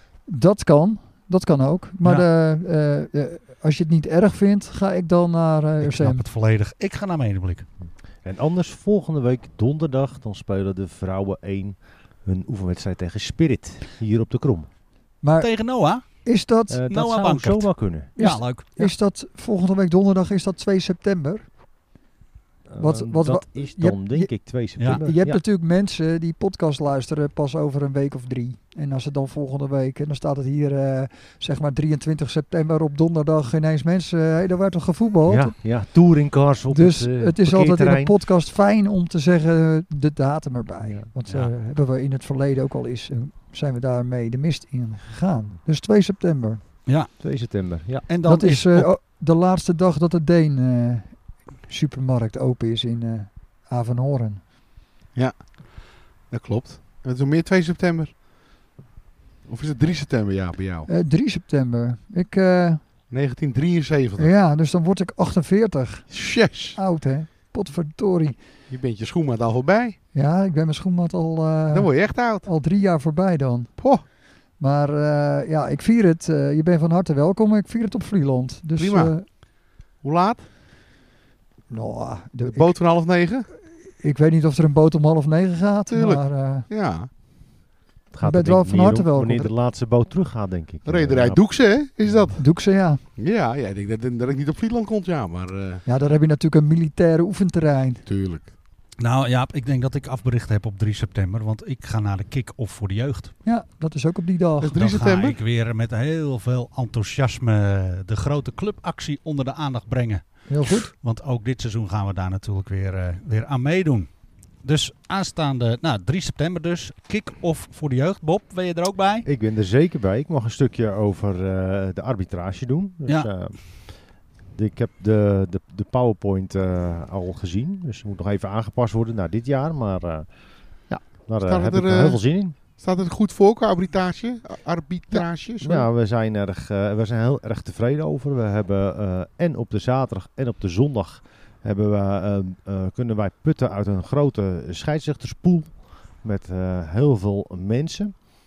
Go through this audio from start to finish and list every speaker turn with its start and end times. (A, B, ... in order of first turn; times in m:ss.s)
0:00.3-0:06.2 A
0:05.8-0:07.7 B
0:08.2-0:14.7 C
0:15.2-0:15.5 A
0:15.4-0:16.1 B
0:16.2-0:16.8 A
0:16.7-0:18.1 C
0:16.9-0:18.9 B
0:18.2-0:21.5 A
0:22.7-0:25.4 C
0:22.8-0:24.4 A
0:24.9-0:35.6 A
0:35.3-0:38.1 C
0:36.7-0:46.6 A
0:46.9-0:48.9 B
0:47.2-0:48.1 C
0:48.2-0:54.4 A
0:55.2-0:58.2 D
0:59.4-1:00.9 D
1:00.9-1:02.8 A
1:03.1-1:04.3 D
1:04.2-1:08.4 A
1:06.1-1:06.8 D
1:08.7-1:10.0 D
1:10.1-1:19.3 A
1:11.7-1:12.5 D
1:13.8-1:14.0 D
1:18.8-1:20.5 D
1:21.7-1:22.8 A
1:22.5-1:23.5 D
1:24.0-1:26.7 A
1:25.9-1:27.1 D
1:28.1-1:31.4 C
1:28.2-1:29.5 A
1:30.8-1:32.5 D
1:32.4-1:33.0 A
1:33.2-1:35.8 D
1:35.9-1:38.0 A
1:38.0-1:38.5 D
1:39.0-1:43.3 B
1:43.4-1:44.8 A
1:44.6-1:45.4 D
1:44.8-1:59.3 B
1:50.5-1:50.9 A
1:59.2-2:10.3 C
2:10.9-2:12.6 C
2:11.4-2:15.9 D
2:15.1-2:28.2 C